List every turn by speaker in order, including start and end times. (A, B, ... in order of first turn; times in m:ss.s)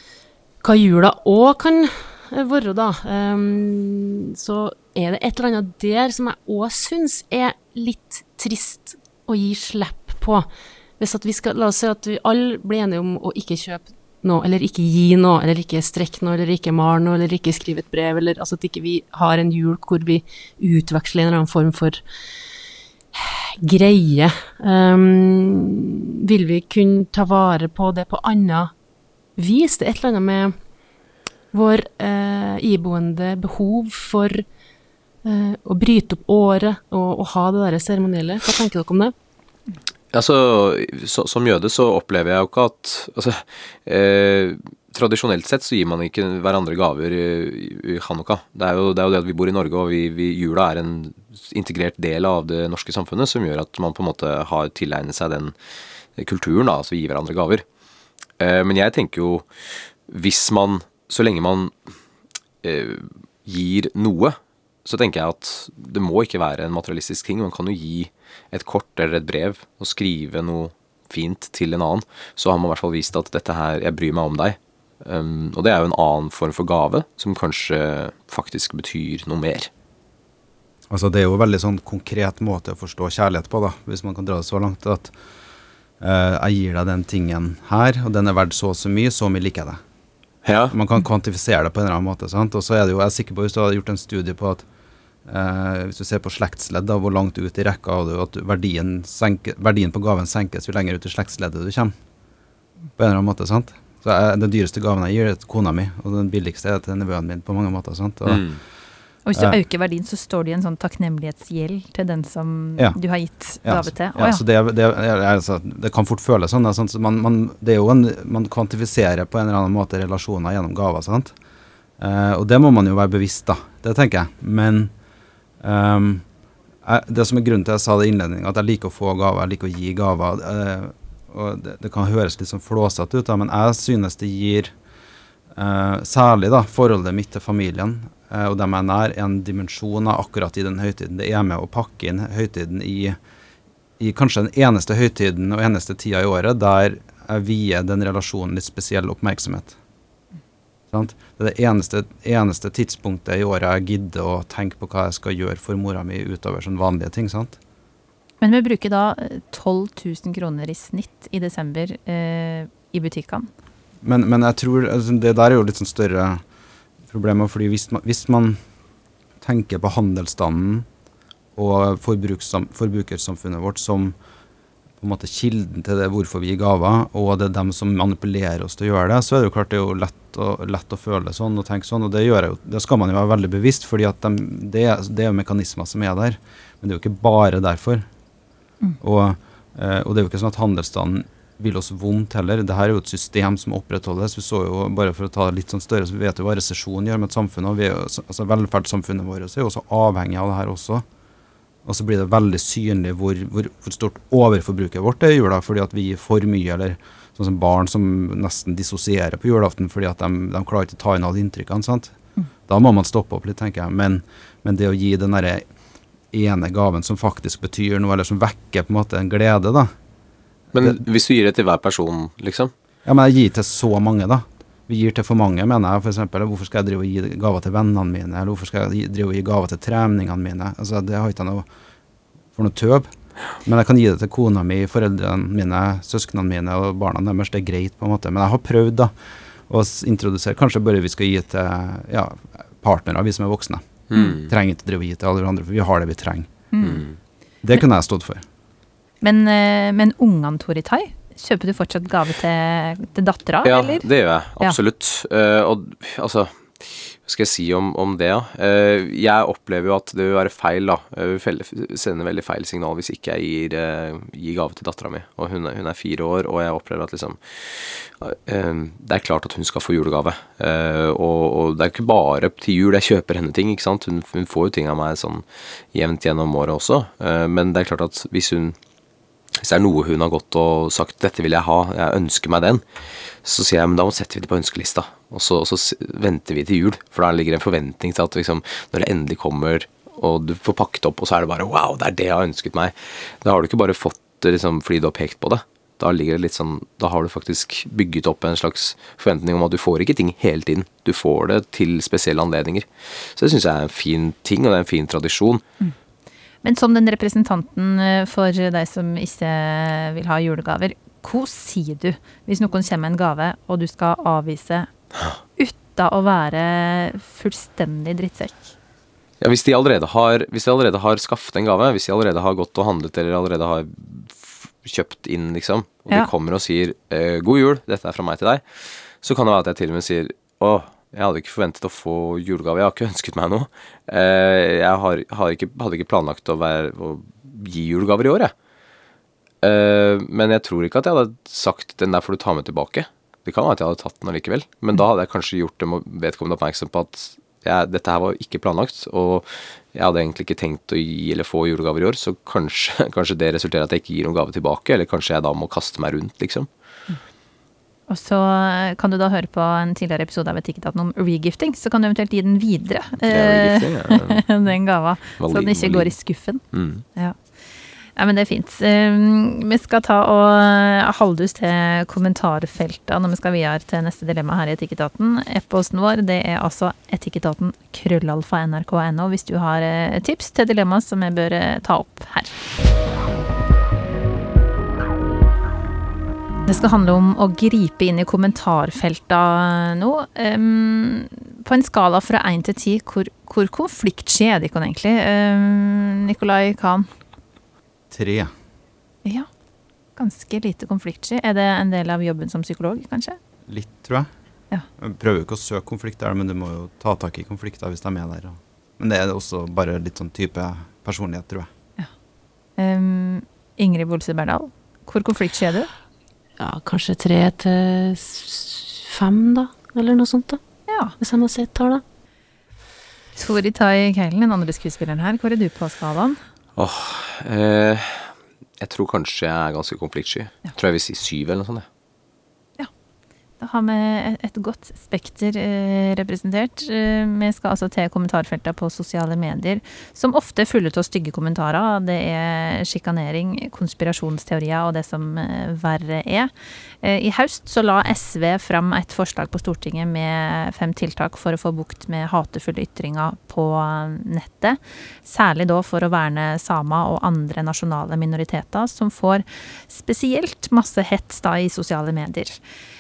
0:00.6-0:10.5 A
0:11.0-0:22.0 A
0:23.2-0:28.7 A
0:29.4-0:30.6 A
0:31.5-0:34.4 A
0:35.2-0:39.1 A
0:40.1-0:55.6 B
0:56.2-0:57.6 B
0:58.4-0:59.5 B
1:00.1-1:01.7 B
1:02.6-1:19.7 B
1:20.9-1:25.1 C
1:26.0-1:29.8 C
1:30.4-1:30.7 B
1:30.7-1:34.6 C
1:35.3-1:41.9 C
1:43.0-1:48.5 C
1:48.3-1:48.6 B
1:49.3-1:54.4 D
1:53.6-2:01.4 C
2:02.0-2:04.9 C
2:05.6-2:06.2 C
2:06.8-2:14.7 C
2:15.6-2:23.2 C
2:24.0-2:29.8 C
2:30.9-2:37.6 C
2:38.4-2:43.5 D
2:44.0-2:46.4 C
2:47.1-2:48.6 C
2:49.4-2:50.9 C
2:51.6-2:54.2 C
2:55.0-3:08.1 C
3:09.0-3:21.0 C
3:21.8-3:32.2 C
3:32.7-3:35.7 C
3:36.3-3:39.9 C
3:40.7-3:42.7 B
3:43.1-3:51.7 C
3:52.6-3:59.1 C
3:59.7-4:06.5 C
4:04.1-4:04.5 B
4:06.7-4:07.0 D
4:06.8-4:07.2 B
4:07.6-4:08.4 C
4:09.2-4:14.1 D
4:13.6-4:38.8 B
4:39.6-4:42.8 B
4:43.4-5:05.6 B
5:06.6-5:14.9 D
5:15.6-5:18.7 D
5:19.4-5:38.5 B
5:39.6-5:56.7 B
5:58.1-6:06.6 D
6:03.2-6:04.5 B
6:05.4-6:06.1 B
6:06.7-6:07.0 B
6:08.2-6:22.6 D
6:26.7-6:37.1 D
6:38.1-6:38.5 C
6:40.2-6:43.4 D
6:43.7-6:44.3 C
6:45.0-6:51.7 C
6:52.8-6:55.9 D
6:56.6-7:00.6 A
7:00.9-7:01.1 D
7:01.2-7:02.0 A
7:03.4-7:06.4 D
7:06.8-7:11.9 B
7:13.6-7:26.5 D
7:27.0-7:42.6 D